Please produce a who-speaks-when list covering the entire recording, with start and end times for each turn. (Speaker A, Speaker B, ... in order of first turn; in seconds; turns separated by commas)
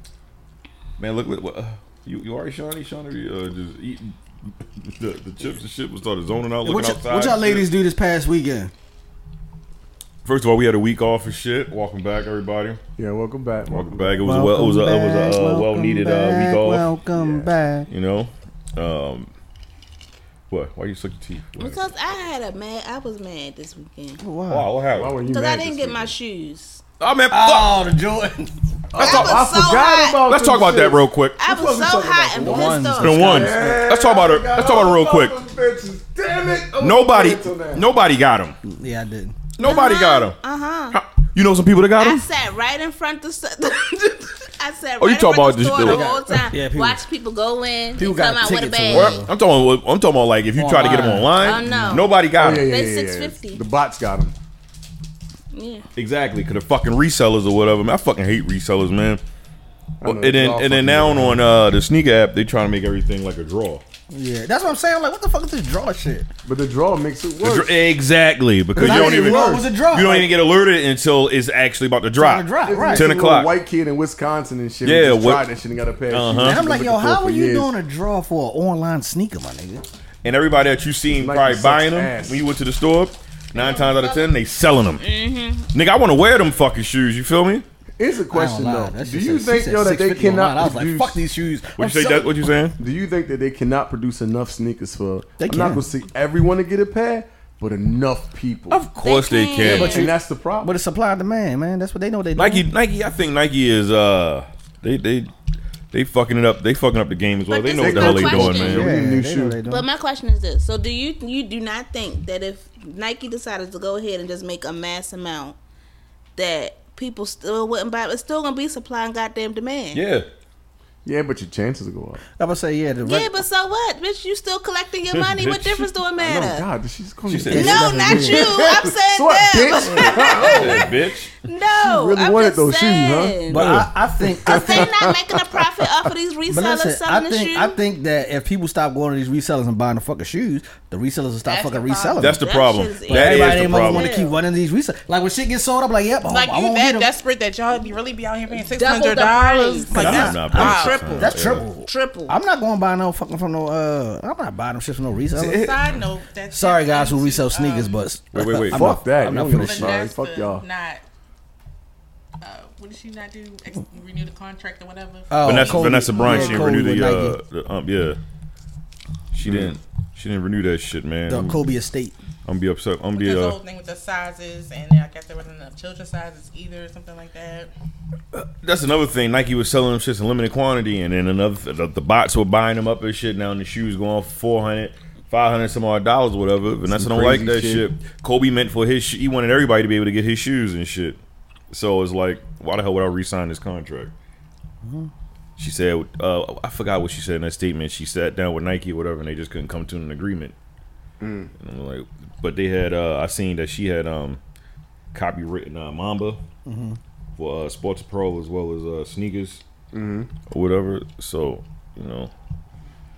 Speaker A: 1.0-7.7, Speaker B: 6.6-8.7, Speaker A: 10.2-12.8, Speaker C: 13.0-14.2, Speaker A: 13.7-19.3, Speaker B: 14.2-17.9, Speaker A: 20.5-21.8, Speaker D: 21.6-24.2, Speaker B: 24.2-24.7, Speaker A: 24.5-25.2, Speaker C: 24.9-26.1, Speaker D: 25.2-26.8, Speaker A: 27.0-27.8, Speaker B: 27.3-28.7, Speaker C: 28.9-37.9, Speaker A: 28.9-29.5, Speaker D: 29.0-30.2, Speaker A: 30.1-31.4, Speaker D: 31.4-33.4, Speaker B: 32.4-33.9, Speaker A: 32.9-35.4, Speaker A: 36.8-38.6, Speaker B: 38.6-39.4, Speaker A: 39.6-40.4, Speaker D: 39.6-41.0, Speaker A: 40.9-42.2, Speaker D: 42.0-49.2, Speaker A: 45.0-46.0, Speaker B: 45.8-47.0, Speaker B: 48.0-49.3, Speaker A: 48.9-52.6, Speaker B: 50.5-52.0, Speaker D: 51.3-53.6, Speaker C: 52.4-54.3, Speaker D: 55.5-55.9, Speaker A: 56.0-59.2, Speaker C: 60.0-61.5, Speaker A: 60.0-63.8, Speaker B: 64.1-66.3, Speaker C: 66.4-67.8, Speaker A: 67.4-73.5, Speaker C: 68.7-69.7, Speaker B: 68.8-70.4, Speaker B: 72.2-73.1, Speaker C: 72.7-77.7, Speaker A: 74.8-75.5, Speaker A: 76.1-76.6, Speaker B: 76.4-79.8, Speaker A: 80.2-85.1, Speaker C: 81.1-82.4, Speaker D: 83.5-84.0, Speaker E: 83.5-84.3, Speaker D: 85.0-85.7, Speaker A: 85.7-87.6, Speaker C: 88.0-91.2, Speaker B: 88.3-92.5, Speaker A: 91.8-92.8, Speaker C: 92.8-98.8, Speaker B: 95.4-95.8, Speaker A: 98.7-100.1, Speaker D: 99.0-100.1, Speaker C: 99.6-100.7, Speaker B: 100.6-102.7, Speaker A: 102.3-105.3, Speaker A: 105.9-108.9, Speaker D: 107.5-108.9, Speaker C: 107.8-109.6, Speaker B: 108.7-109.8, Speaker D: 109.6-115.6, Speaker D: 116.3-120.0, Speaker A: 119.9-120.3, Speaker C: 121.0-122.2, Speaker B: 122.4-123.4, Speaker D: 123.0-126.7, Speaker A: 125.1-125.9, Speaker C: 126.2-130.9, Speaker A: 127.3-128.1, Speaker B: 127.5-128.6, Speaker D: 127.5-133.7, Speaker A: 130.0-131.3, Speaker C: 131.7-136.1, Speaker B: 133.5-134.9, Speaker D: 134.4-137.8, Speaker B: 136.5-142.4, Speaker E: 141.4-142.3, Speaker A: 142.2-144.2, Speaker D: 142.2-144.4, Speaker B: 143.1-147.1, Speaker E: 146.3-151.0, Speaker D: 148.5-152.3, Speaker B: 149.9-155.8, Speaker A: 149.9-151.7, Speaker E: 155.3-158.0, Speaker B: 156.5-160.0, Speaker A: 158.3-158.9, Speaker C: 158.7-160.6, Speaker E: 159.5-161.0, Speaker E: 162.4-166.8, Speaker B: 165.3-167.4, Speaker A: 165.4-168.2, Speaker A: 169.3-171.7, Speaker C: 169.4-169.7, Speaker B: 171.3-172.2, Speaker A: 172.4-173.6, Speaker E: 173.2-177.7, Speaker A: 178.3-191.2, Speaker C: 186.9-187.9, Speaker A: 191.7-194.1, Speaker B: 194.8-195.1, Speaker A: 195.6-200.5, Speaker C: 201.2-201.5, Speaker A: 201.6-204.4, Speaker A: 205.1-206.4, Speaker B: 206.7-207.0, Speaker A: 207.4-209.6, Speaker C: 209.9-210.3, Speaker A: 210.5-212.3